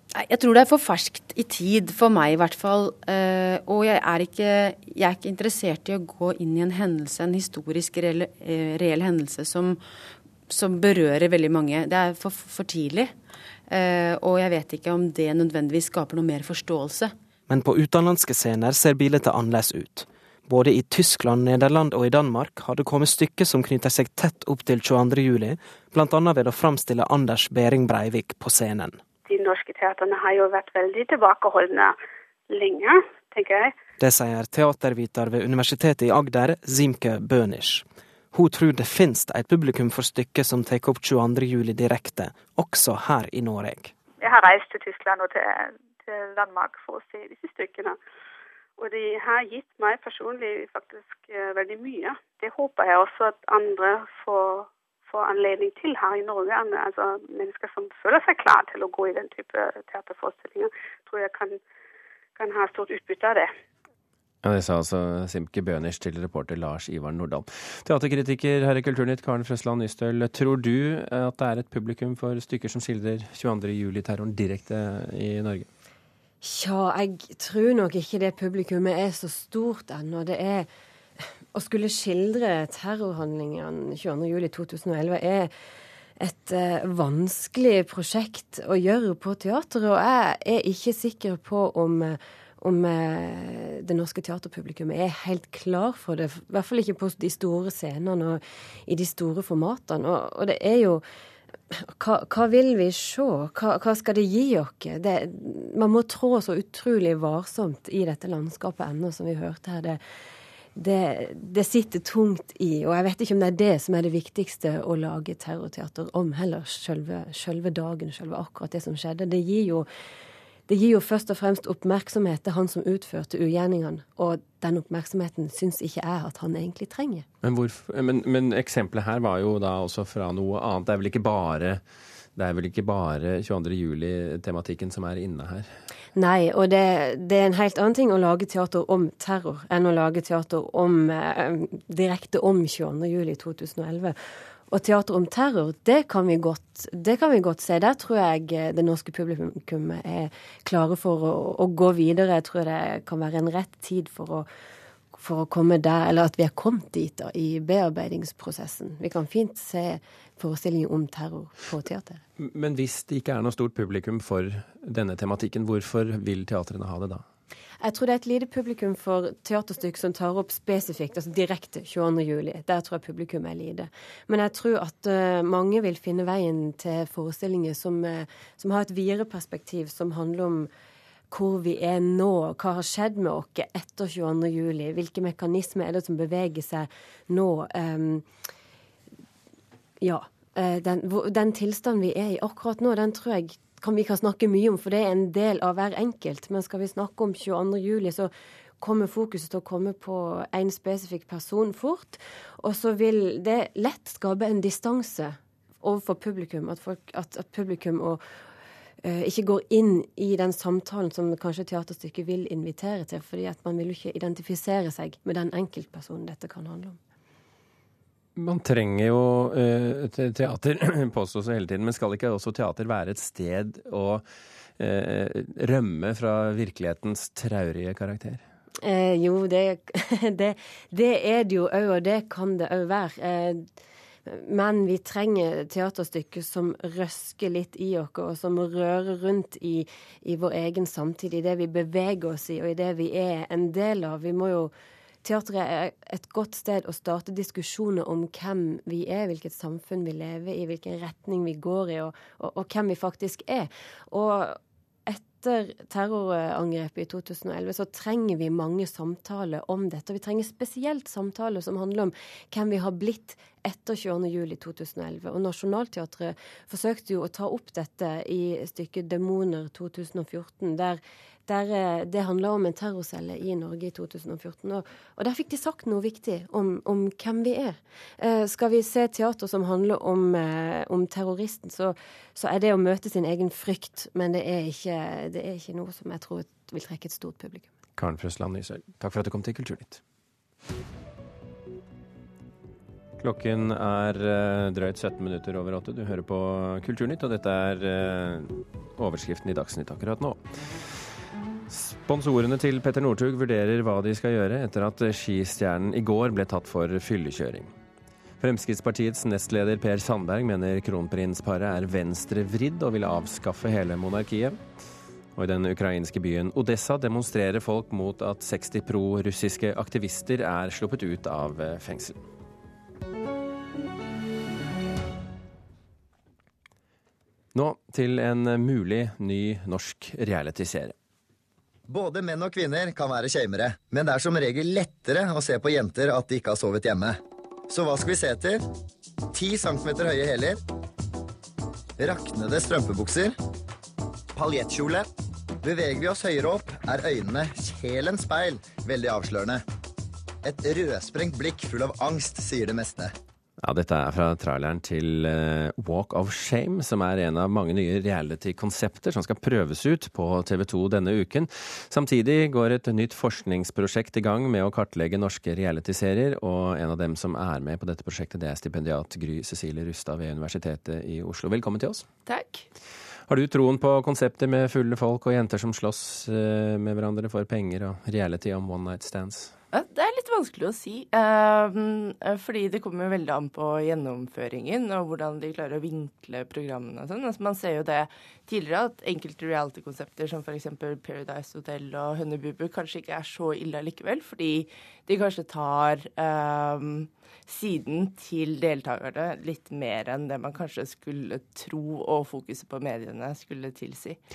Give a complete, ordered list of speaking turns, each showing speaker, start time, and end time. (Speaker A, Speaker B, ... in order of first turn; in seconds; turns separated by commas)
Speaker A: 0.1-9.8, Speaker A: 10.5-17.1, Speaker B: 17.5-29.0, Speaker C: 29.2-31.9, Speaker C: 32.5-33.7, Speaker B: 34.0-43.9, Speaker C: 44.2-48.0, Speaker C: 48.8-61.6, Speaker C: 62.4-63.5, Speaker D: 64.4-75.7, Speaker E: 76.4-80.7, Speaker E: 81.5-85.5, Speaker E: 86.2-101.0, Speaker E: 101.7-110.0, Speaker E: 110.8-119.9, Speaker E: 120.7-127.2, Speaker D: 127.4-131.8, Speaker D: 132.3-135.7, Speaker E: 136.1-144.2, Speaker E: 144.7-154.5, Speaker E: 155.1-162.2, Speaker D: 162.4-167.2, Speaker E: 167.8-180.7, Speaker E: 181.3-188.2, Speaker E: 190.0-208.2, Speaker E: 209.0-217.0, Speaker D: 218.3-224.2, Speaker D: 224.8-228.4, Speaker E: 228.8-233.6, Speaker E: 234.3-244.7, Speaker E: 245.2-287.7, Speaker D: 288.0-290.0, Speaker D: 293.2-300.4, Speaker D: 301.7-307.7, Speaker D: 308.4-314.6, Speaker D: 315.4-322.2, Speaker D: 327.5-330.9, Speaker F: 331.9-338.6, Speaker F: 339.3-340.6, Speaker F: 342.0-343.4, Speaker F: 344.3-345.1, Speaker F: 345.6-349.6, Speaker F: 350.4-353.1, Speaker D: 353.6-372.0, Speaker G: 372.2-372.6, Speaker D: 373.3-379.5, Speaker G: 379.7-404.2